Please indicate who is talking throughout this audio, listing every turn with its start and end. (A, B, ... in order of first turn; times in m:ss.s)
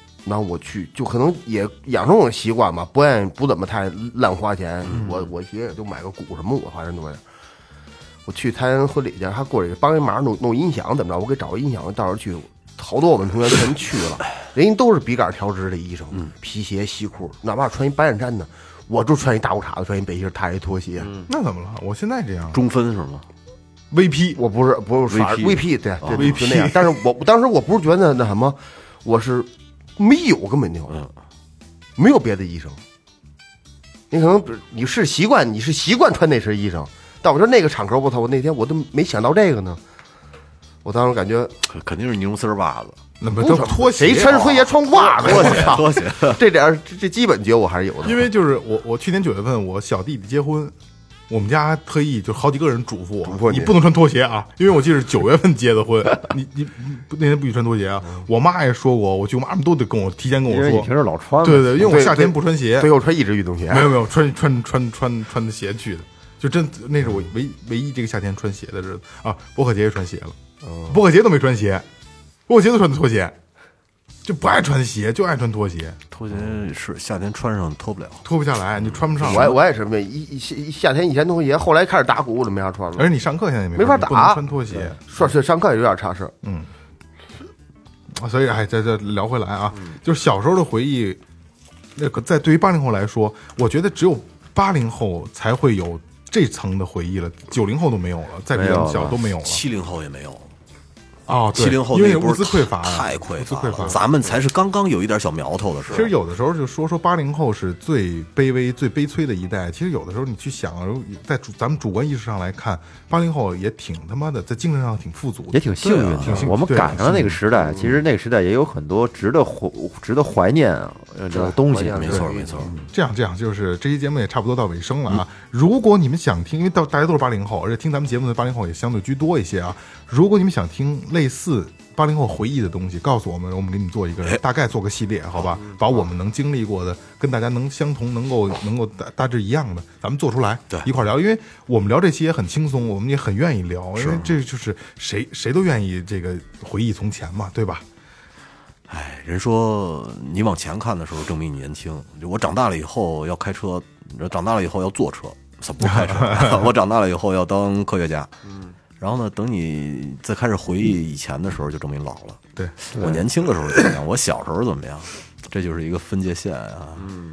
0:00.2-0:07.2 A
0:04.9-0:05.1 B
0:08.3-0:21.2 A
0:21.3-0:22.6 C
0:22.5-0:23.2 B
0:23.9-0:24.4 C
0:24.4-0:31.0 A
0:25.1-0:26.4 B
0:26.1-0:27.0 C
0:32.0-0:32.8 A
0:34.1-0:39.8 A
0:40.8-0:41.5 A
0:41.6-0:43.0 B
0:43.2-0:44.6 C
0:43.4-0:48.3 A
0:44.2-0:46.4 B
0:45.3-0:45.7 C
0:48.0-0:50.7 C
0:51.3-1:02.9 C
0:53.2-0:53.8 A
1:00.4-1:02.1 D
1:01.8-1:03.9 A
1:03.7-1:10.3 C
1:10.6-1:11.0 A
1:10.9-1:11.8 C
1:12.5-1:13.4 C
1:14.2-1:16.0 C
1:16.1-1:18.3 B
1:18.2-1:19.6 C
1:18.8-1:19.6 B
1:19.2-1:23.1 A
1:23.0-1:25.0 C
1:23.8-1:24.4 A
1:25.0-1:26.3 A
1:26.4-1:26.7 C
1:28.1-1:31.2 C
1:32.0-1:39.6 C
1:38.5-1:39.2 D
1:39.4-1:40.5 B
1:41.3-1:44.1 C
1:41.5-1:46.1 B
1:45.9-1:55.6 C
1:55.5-2:02.9 D
1:55.8-1:56.6 B
1:56.2-1:57.4 C
1:57.6-1:58.0 A
2:01.3-2:02.7 A
2:02.0-2:02.7 B
2:02.9-2:27.8 C
2:24.0-2:24.4 B
2:28.9-2:38.3 B
2:35.8-2:36.7 C
2:39.0-2:47.1 B
2:42.9-2:43.3 D